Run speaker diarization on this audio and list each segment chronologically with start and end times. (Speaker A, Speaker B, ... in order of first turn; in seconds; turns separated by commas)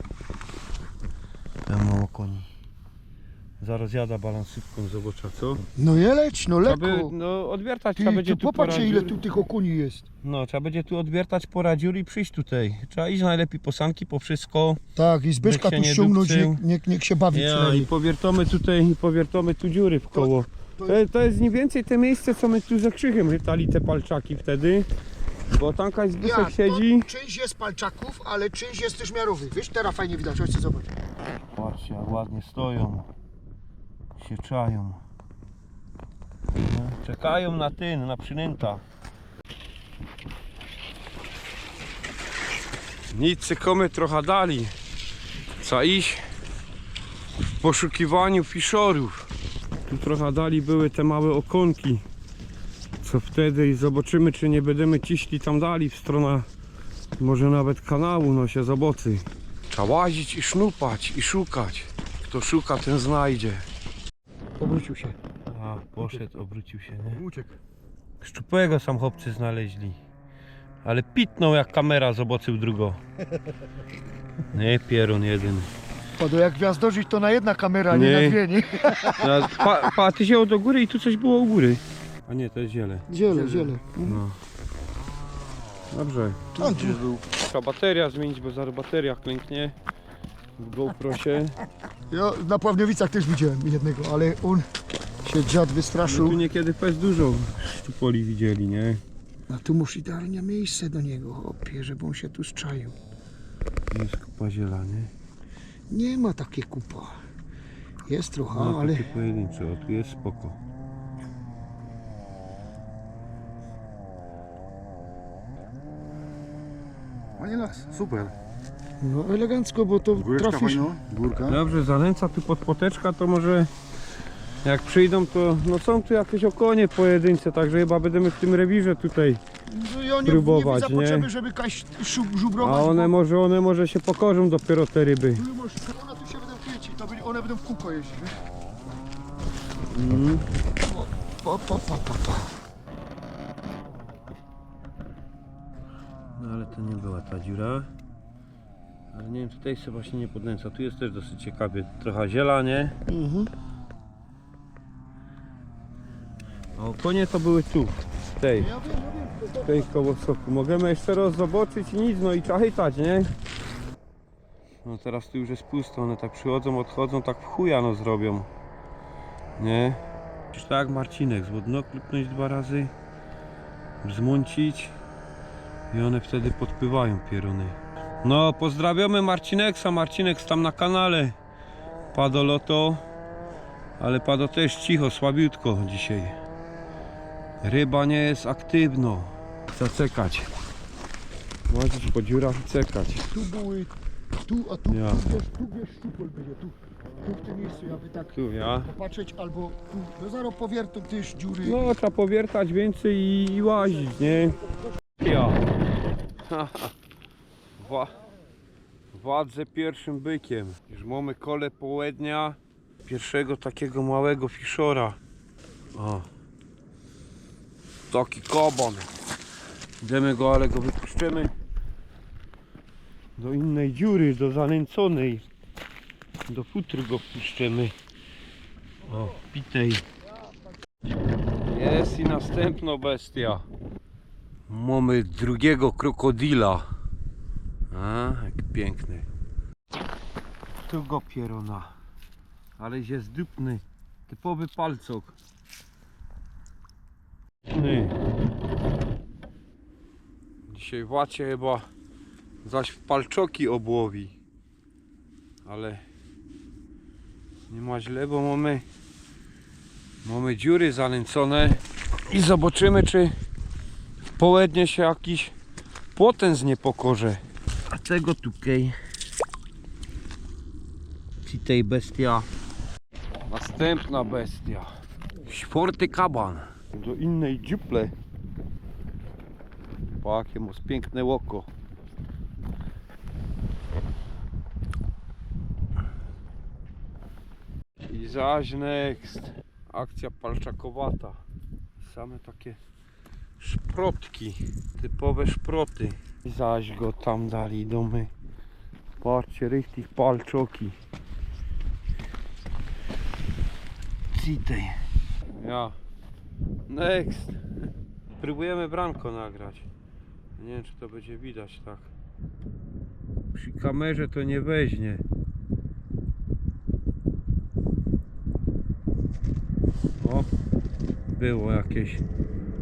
Speaker A: 1.7-2.5, Speaker A: 3.6-5.7, Speaker B: 5.8-7.1, Speaker A: 6.6-9.2, Speaker B: 8.0-10.1, Speaker A: 10.2-14.8, Speaker B: 15.0-17.9, Speaker A: 15.4-16.6, Speaker A: 17.3-24.9, Speaker B: 20.1-21.0, Speaker A: 25.5-27.1, Speaker B: 26.2-30.9, Speaker A: 31.6-33.1, Speaker A: 34.2-35.0, Speaker A: 36.5-38.8, Speaker A: 43.1-44.7, Speaker A: 45.6-46.3, Speaker A: 47.6-49.3, Speaker A: 49.9-52.0, Speaker A: 53.0-56.5, Speaker A: 57.2-63.7, Speaker B: 64.6-65.2, Speaker A: 65.5-67.2, Speaker C: 67.1-67.6, Speaker A: 68.2-70.0, Speaker A: 70.8-73.0, Speaker A: 74.5-75.7, Speaker B: 76.2-79.7, Speaker A: 77.9-78.4, Speaker A: 79.2-83.1, Speaker B: 83.1-84.2, Speaker C: 83.3-83.7, Speaker A: 84.0-84.4, Speaker A: 85.9-89.8, Speaker B: 86.6-87.0, Speaker C: 86.6-87.2, Speaker A: 90.6-91.6, Speaker B: 92.1-94.7, Speaker B: 95.2-96.4, Speaker A: 96.0-99.0, Speaker B: 99.5-103.0, Speaker A: 103.9-105.1, Speaker B: 105.9-107.2, Speaker B: 108.0-109.1, Speaker A: 108.5-110.6, Speaker C: 117.4-118.3, Speaker B: 119.0-120.9, Speaker C: 120.1-121.6, Speaker A: 121.5-123.7, Speaker A: 124.6-129.4, Speaker B: 129.7-133.1, Speaker A: 130.2-131.3, Speaker A: 132.6-135.4, Speaker B: 135.3-138.4, Speaker A: 139.9-140.4, Speaker B: 140.9-142.5, Speaker A: 146.4-147.9, Speaker A: 149.1-153.0, Speaker B: 153.1-153.5, Speaker A: 156.8-158.7, Speaker B: 158.6-159.9, Speaker A: 159.6-163.3, Speaker A: 164.8-168.5, Speaker A: 169.6-170.0, Speaker A: 170.5-172.9, Speaker A: 174.0-174.9, Speaker A: 175.9-181.4, Speaker A: 182.1-183.0, Speaker A: 184.0-186.4, Speaker A: 187.6-190.5, Speaker A: 191.7-193.3, Speaker B: 193.3-201.8, Speaker A: 194.9-195.3, Speaker A: 198.3-198.9, Speaker A: 201.6-204.6, Speaker A: 205.2-205.6, Speaker A: 206.4-206.9, Speaker A: 207.8-208.2, Speaker A: 209.1-215.2, Speaker A: 215.9-216.3, Speaker A: 218.1-219.1, Speaker A: 220.0-221.5, Speaker A: 223.4-225.5, Speaker A: 226.5-227.9, Speaker A: 229.1-230.1, Speaker A: 231.7-233.7, Speaker A: 234.7-236.9, Speaker A: 237.9-239.3, Speaker A: 240.8-241.9, Speaker A: 242.8-245.4, Speaker A: 247.7-248.2, Speaker A: 250.7-251.9, Speaker A: 252.7-254.4, Speaker A: 255.7-256.0, Speaker A: 257.7-258.9, Speaker A: 260.2-263.3, Speaker A: 264.4-265.6, Speaker A: 266.1-269.0, Speaker A: 271.4-272.5, Speaker A: 273.5-274.9, Speaker A: 275.5-278.1, Speaker A: 280.2-281.7, Speaker A: 288.0-291.4, Speaker A: 292.0-292.8, Speaker A: 293.6-298.3, Speaker A: 299.2-300.9, Speaker A: 304.3-305.0, Speaker A: 305.6-306.0, Speaker A: 306.9-307.6, Speaker A: 308.4-309.9, Speaker A: 310.6-312.1, Speaker A: 313.5-315.2, Speaker A: 320.2-320.5, Speaker A: 321.3-322.2